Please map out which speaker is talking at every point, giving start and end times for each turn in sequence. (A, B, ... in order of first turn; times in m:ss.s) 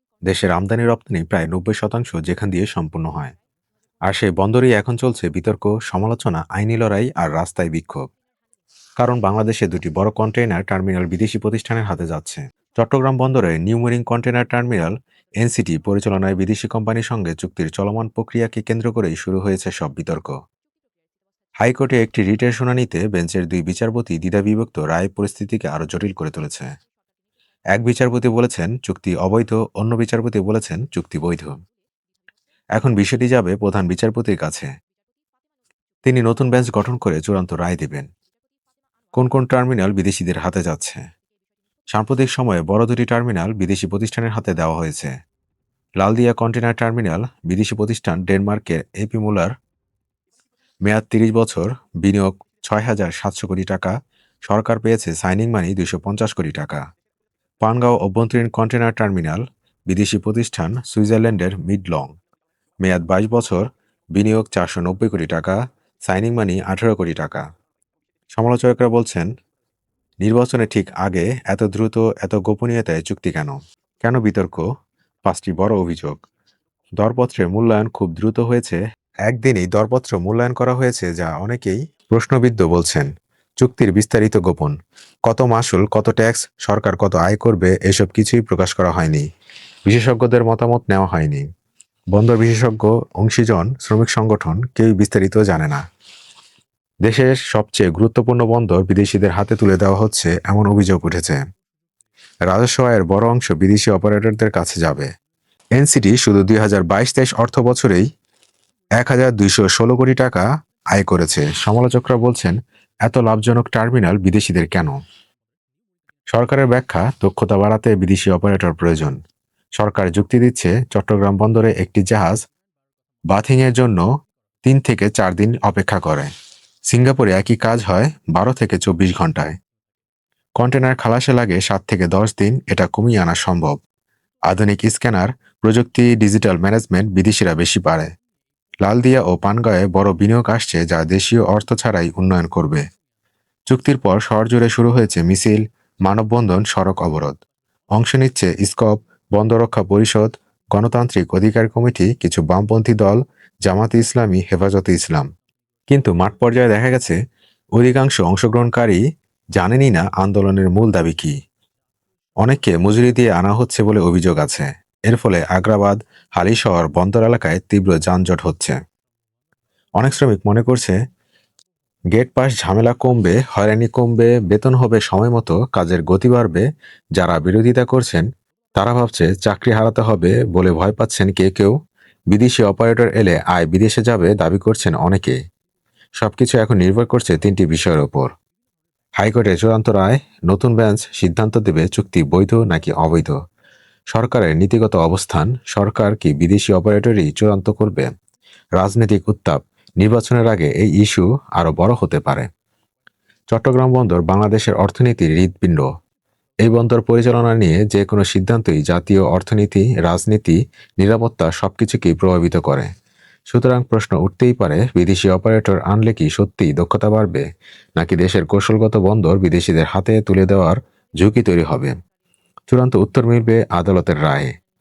0:00.3-0:03.3 A
0:04.1-0:08.1 A
0:09.0-0:20.3 A
0:21.6-0:26.7 A
0:27.8-0:31.6 A
0:32.8-0:34.7 A
0:36.0-0:38.1 A
0:39.2-0:41.0 A
0:41.9-0:45.1 A
0:46.0-0:49.5 A
0:50.9-0:53.9 A
0:54.5-0:56.8 A
0:57.6-1:02.1 A
1:02.8-1:07.4 A
1:08.3-1:09.3 A
1:10.2-1:14.6 A
1:15.3-1:16.2 A
1:17.0-1:23.1 A
1:23.6-1:24.8 A
1:25.3-1:29.2 A
1:29.9-1:31.4 A
1:32.1-1:35.8 A
1:37.0-1:41.4 A
1:42.5-1:45.1 A
1:45.8-1:48.1 A
1:49.0-1:55.0 A
1:56.3-1:59.2 A
1:59.8-2:02.4 A
2:03.3-2:04.0 A
2:04.6-2:06.3 A
2:06.9-2:09.6 A
2:10.6-2:13.8 A
2:14.5-2:18.1 A
2:18.8-2:22.8 A
2:23.7-2:27.4 A
2:28.0-2:35.3 A
2:35.9-2:37.2 A
2:37.8-2:39.0 A
2:39.6-2:41.3 A
2:42.4-2:48.8 A
2:50.0-2:51.0 A
2:52.2-2:56.6 A
2:57.2-2:58.2 A
2:58.8-3:01.8 A
3:02.3-3:05.4 A
3:06.2-3:08.3 A
3:09.2-3:13.4 A
3:14.2-3:18.1 A
3:18.8-3:22.5 A
3:23.5-3:25.9 A
3:26.6-3:32.9 A
3:33.5-3:37.4 A
3:38.0-3:41.9 A
3:42.7-3:44.5 A